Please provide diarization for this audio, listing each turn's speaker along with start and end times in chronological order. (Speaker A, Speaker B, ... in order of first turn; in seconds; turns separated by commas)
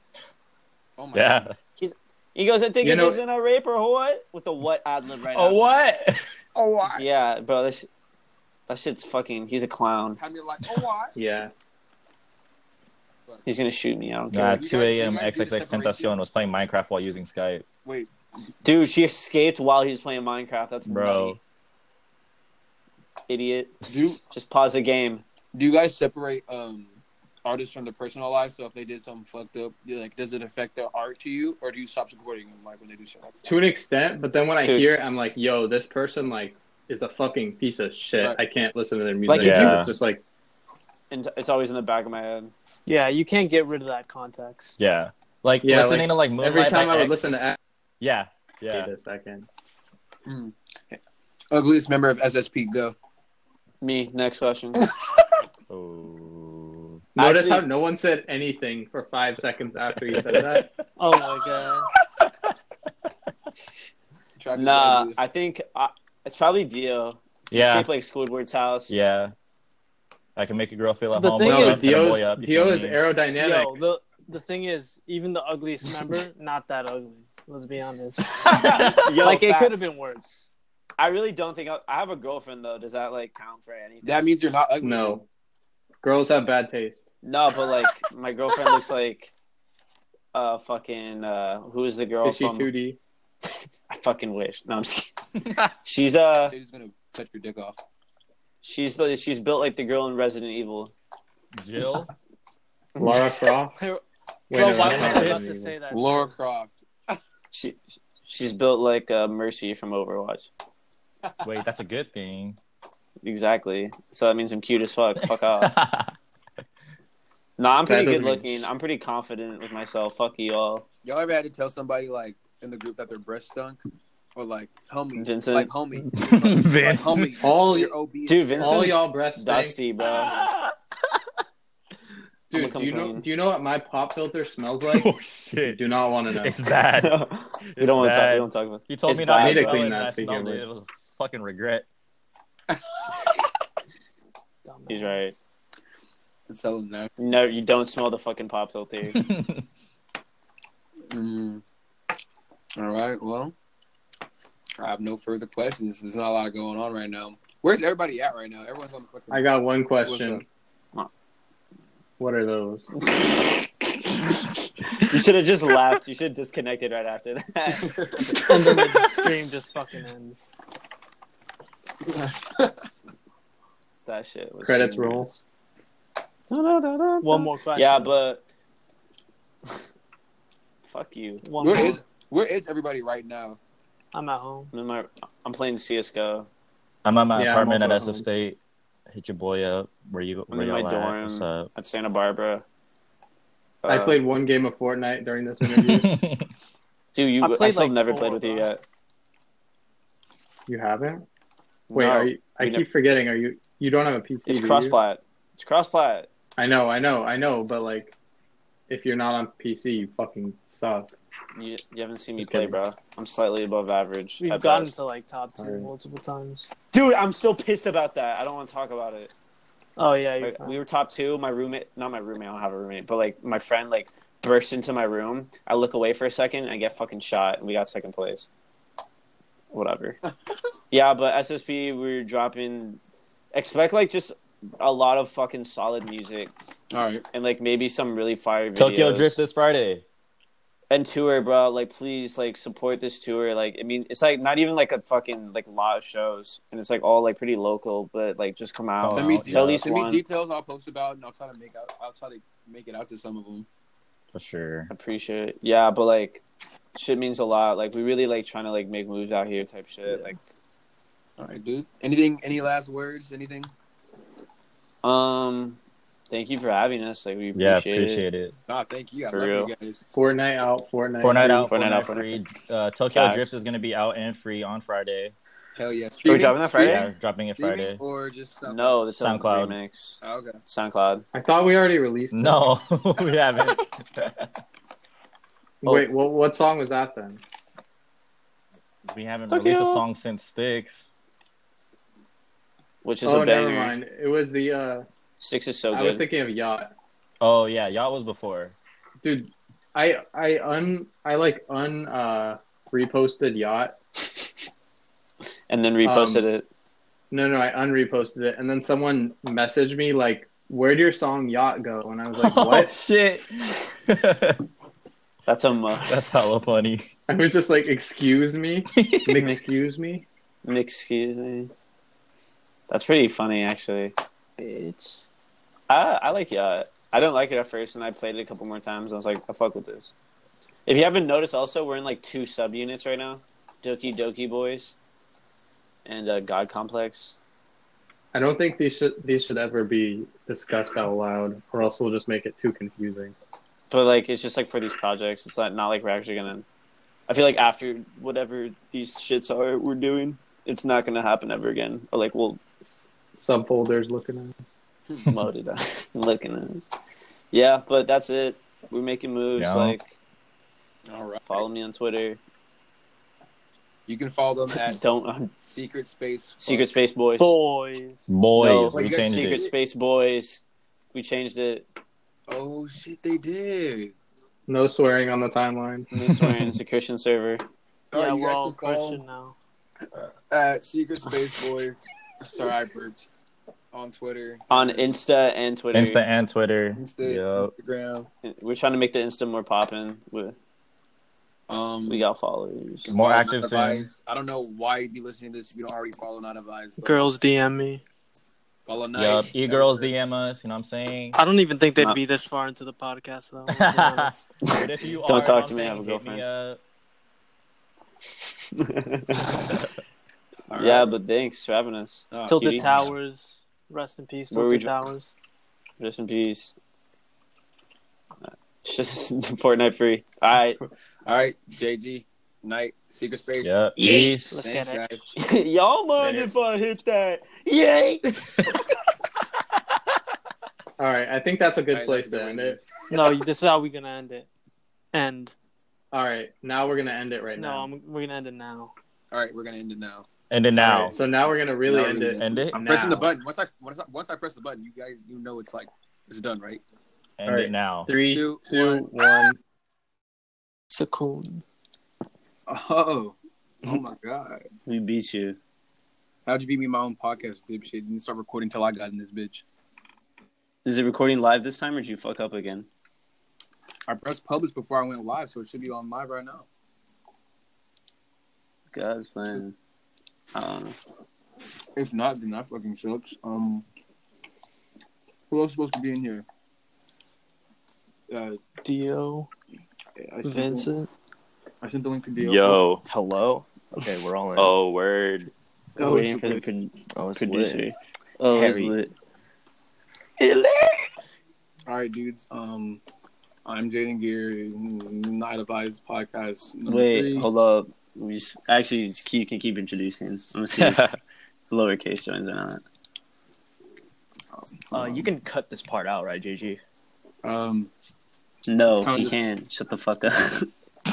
Speaker A: 1.0-1.4, Speaker B: 1.1-1.5, Speaker C: 1.8-5.8, Speaker D: 2.8-3.2, Speaker B: 5.3-6.2, Speaker A: 6.5-7.0, Speaker C: 6.9-7.9, Speaker C: 8.7-10.2, Speaker A: 10.2-11.2, Speaker D: 11.2-11.5, Speaker C: 13.4-14.6, Speaker B: 14.3-17.6, Speaker A: 14.5-16.2, Speaker A: 17.8-18.1, Speaker C: 18.6-21.4, Speaker B: 20.9-21.4, Speaker C: 23.3-25.2, Speaker A: 23.9-24.2, Speaker A: 25.5-33.4, Speaker D: 33.4-40.2, Speaker C: 34.6-35.0, Speaker C: 39.3-39.8, Speaker B: 39.4-39.9, Speaker C: 41.1-42.5, Speaker E: 42.9-44.8, Speaker B: 44.8-47.2, Speaker D: 45.6-47.6, Speaker B: 48.0-48.9, Speaker D: 48.7-49.5, Speaker A: 50.2-52.9, Speaker C: 53.8-54.8, Speaker A: 54.8-55.1, Speaker B: 55.7-57.0, Speaker C: 57.1-57.6, Speaker D: 57.1-60.7, Speaker B: 60.0-60.8, Speaker E: 61.0-61.9, Speaker A: 64.4-65.2, Speaker C: 64.5-68.9, Speaker B: 67.5-67.9, Speaker B: 68.9-69.3, Speaker B: 70.3-73.0, Speaker E: 71.1-72.0, Speaker D: 71.4-73.7, Speaker E: 73.3-78.4, Speaker B: 78.4-79.1, Speaker C: 78.5-79.7, Speaker E: 79.2-80.5, Speaker C: 81.0-84.3, Speaker A: 84.0-85.2, Speaker D: 84.8-85.2, Speaker D: 86.0-87.0, Speaker C: 87.2-89.3, Speaker C: 90.3-92.7, Speaker D: 92.2-93.0, Speaker C: 93.9-95.1, Speaker B: 95.4-95.7, Speaker C: 95.8-96.5, Speaker A: 96.4-97.8, Speaker C: 98.6-100.9, Speaker B: 101.5-102.1, Speaker C: 103.0-103.3, Speaker D: 103.0-103.8, Speaker E: 103.8-106.4, Speaker D: 104.5-105.8, Speaker A: 105.9-107.2, Speaker C: 107.5-110.5, Speaker B: 111.4-112.6, Speaker C: 113.2-115.7, Speaker B: 115.6-116.1, Speaker C: 117.6-120.8, Speaker D: 117.8-118.7, Speaker A: 121.0-123.8, Speaker A: 124.3-129.0, Speaker C: 125.2-125.7, Speaker B: 126.1-127.4, Speaker D: 127.4-128.0, Speaker C: 128.3-130.4, Speaker D: 128.6-129.8, Speaker B: 130.0-130.7, Speaker D: 132.5-135.1, Speaker C: 132.5-133.2, Speaker B: 134.9-135.8, Speaker D: 135.6-136.6, Speaker B: 136.3-137.2, Speaker C: 137.0-139.8, Speaker B: 137.7-141.8, Speaker D: 139.3-140.6, Speaker A: 142.7-143.0, Speaker E: 144.6-145.2, Speaker C: 144.9-145.3, Speaker A: 146.5-147.1, Speaker C: 147.2-149.2, Speaker B: 149.1-149.6, Speaker A: 151.1-151.6, Speaker A: 152.8-153.5, Speaker A: 154.8-159.4, Speaker D: 159.3-160.4, Speaker A: 160.0-160.4, Speaker D: 162.2-162.9, Speaker C: 163.0-164.4, Speaker C: 165.0-168.0, Speaker A: 167.8-168.4, Speaker E: 168.4-170.4, Speaker A: 172.0-172.8, Speaker C: 174.1-175.4, Speaker D: 174.6-175.3, Speaker C: 176.5-178.4, Speaker E: 177.2-178.1, Speaker C: 180.9-181.5, Speaker E: 181.4-182.0, Speaker A: 181.6-183.6, Speaker E: 184.1-184.7, Speaker C: 184.7-186.5, Speaker B: 187.0-188.6, Speaker D: 187.3-188.2, Speaker B: 189.1-191.7, Speaker C: 190.5-192.6, Speaker C: 193.8-194.2, Speaker D: 193.9-196.1, Speaker B: 195.7-196.5, Speaker C: 197.1-198.8, Speaker E: 197.4-198.7, Speaker D: 200.7-201.2, Speaker C: 201.9-202.8, Speaker D: 201.9-205.0, Speaker C: 204.4-206.3, Speaker D: 206.6-208.1, Speaker D: 208.9-211.1, Speaker C: 211.6-215.0, Speaker D: 212.4-212.8, Speaker E: 214.4-216.7, Speaker D: 215.6-215.9, Speaker C: 216.9-219.3, Speaker E: 220.0-220.8, Speaker C: 220.4-228.5, Speaker C: 229.7-230.2, Speaker C: 230.9-233.0, Speaker C: 233.5-236.5, Speaker A: 236.9-237.2, Speaker C: 237.3-239.4, Speaker B: 238.8-240.0, Speaker C: 240.9-250.2, Speaker B: 249.0-249.8, Speaker A: 249.1-253.7, Speaker B: 254.3-254.9, Speaker C: 254.9-256.4, Speaker C: 256.9-260.4, Speaker A: 261.4-263.7, Speaker C: 265.0-265.8, Speaker C: 266.3-268.2, Speaker B: 267.5-268.6, Speaker A: 268.7-270.1, Speaker C: 269.3-269.7, Speaker D: 270.1-271.7, Speaker B: 271.2-275.3, Speaker C: 271.5-272.4, Speaker C: 273.1-273.5, Speaker A: 275.8-279.0, Speaker C: 276.2-277.1, Speaker B: 276.8-278.0, Speaker C: 278.6-281.2, Speaker B: 279.1-279.8, Speaker A: 280.2-280.6, Speaker D: 281.3-282.6, Speaker B: 282.3-284.4, Speaker D: 285.8-287.4, Speaker B: 289.1-291.1, Speaker C: 289.5-290.0, Speaker C: 293.0-293.9, Speaker D: 293.2-295.0, Speaker C: 295.4-296.2, Speaker D: 295.9-296.9, Speaker B: 297.4-298.8, Speaker D: 299.2-303.9, Speaker C: 305.7-306.6, Speaker D: 306.0-306.5, Speaker D: 307.3-312.9, Speaker B: 312.4-314.6, Speaker C: 315.5-316.1, Speaker B: 316.1-317.1, Speaker D: 317.3-320.2, Speaker B: 318.9-319.4, Speaker C: 319.3-319.6, Speaker C: 320.6-321.7, Speaker C: 322.9-325.2, Speaker C: 325.9-330.1, Speaker C: 330.9-334.9, Speaker C: 336.1-337.4, Speaker D: 338.3-343.3, Speaker C: 343.9-346.6, Speaker C: 347.3-352.6, Speaker D: 352.8-354.7, Speaker A: 355.1-355.4, Speaker C: 355.2-356.9, Speaker C: 357.5-360.1, Speaker B: 359.6-359.9, Speaker A: 361.1-361.6, Speaker C: 361.4-362.4, Speaker A: 364.1-367.0, Speaker C: 364.7-365.5, Speaker C: 366.6-367.6, Speaker E: 367.4-368.3, Speaker B: 368.3-369.7, Speaker C: 368.6-371.8, Speaker A: 368.9-369.7, Speaker A: 372.5-374.1, Speaker D: 374.7-376.1, Speaker C: 376.1-377.6, Speaker A: 378.1-379.2, Speaker E: 378.1-379.6, Speaker A: 380.1-383.2, Speaker A: 383.9-385.1, Speaker C: 384.7-386.2, Speaker B: 385.9-387.7, Speaker A: 386.9-388.3, Speaker C: 388.4-390.6, Speaker A: 391.7-392.2, Speaker C: 392.1-393.1, Speaker A: 393.0-397.3, Speaker B: 393.1-394.1, Speaker E: 397.0-398.0, Speaker A: 398.9-400.1, Speaker B: 399.1-401.4, Speaker E: 401.3-404.5, Speaker B: 403.7-406.8, Speaker C: 404.6-406.4, Speaker C: 408.7-409.6, Speaker A: 410.7-411.1, Speaker C: 410.7-412.9, Speaker A: 412.3-412.9, Speaker E: 412.4-415.3, Speaker B: 412.9-413.1, Speaker C: 414.5-414.9, Speaker C: 416.0-416.7, Speaker C: 418.5-420.8, Speaker A: 421.2-425.3, Speaker B: 423.6-424.5, Speaker E: 424.5-425.1, Speaker C: 425.4-428.2, Speaker D: 426.2-426.5, Speaker D: 431.0-432.8, Speaker A: 431.9-432.9, Speaker E: 433.1-434.5, Speaker E: 435.1-435.5, Speaker D: 436.1-437.9, Speaker E: 437.6-438.9, Speaker A: 439.3-440.3, Speaker B: 440.5-441.1, Speaker D: 440.8-443.3, Speaker A: 441.8-446.8, Speaker B: 442.0-442.8, Speaker B: 447.4-448.1, Speaker D: 447.5-449.6, Speaker A: 448.2-449.1, Speaker E: 450.9-451.6, Speaker A: 452.7-454.6, Speaker C: 454.9-455.6, Speaker A: 456.4-459.6, Speaker C: 460.8-462.9, Speaker A: 464.1-466.7, Speaker C: 468.9-469.7, Speaker C: 470.5-470.9, Speaker A: 471.9-473.8, Speaker A: 475.5-476.4, Speaker A: 478.3-478.6, Speaker E: 478.8-479.5, Speaker A: 480.2-480.9, Speaker E: 480.4-481.1, Speaker A: 481.8-482.8, Speaker B: 482.4-483.0, Speaker F: 483.0-484.8, Speaker B: 484.6-485.5, Speaker A: 486.0-486.6, Speaker C: 486.0-489.1, Speaker F: 487.1-487.8, Speaker F: 488.5-488.9, Speaker F: 490.4-491.0, Speaker A: 491.9-493.0, Speaker A: 493.6-497.5, Speaker C: 496.9-501.0, Speaker B: 500.8-501.2, Speaker C: 501.7-502.8, Speaker A: 504.8-505.3, Speaker F: 504.9-506.8, Speaker A: 507.4-507.9, Speaker C: 508.7-510.7, Speaker A: 509.0-509.4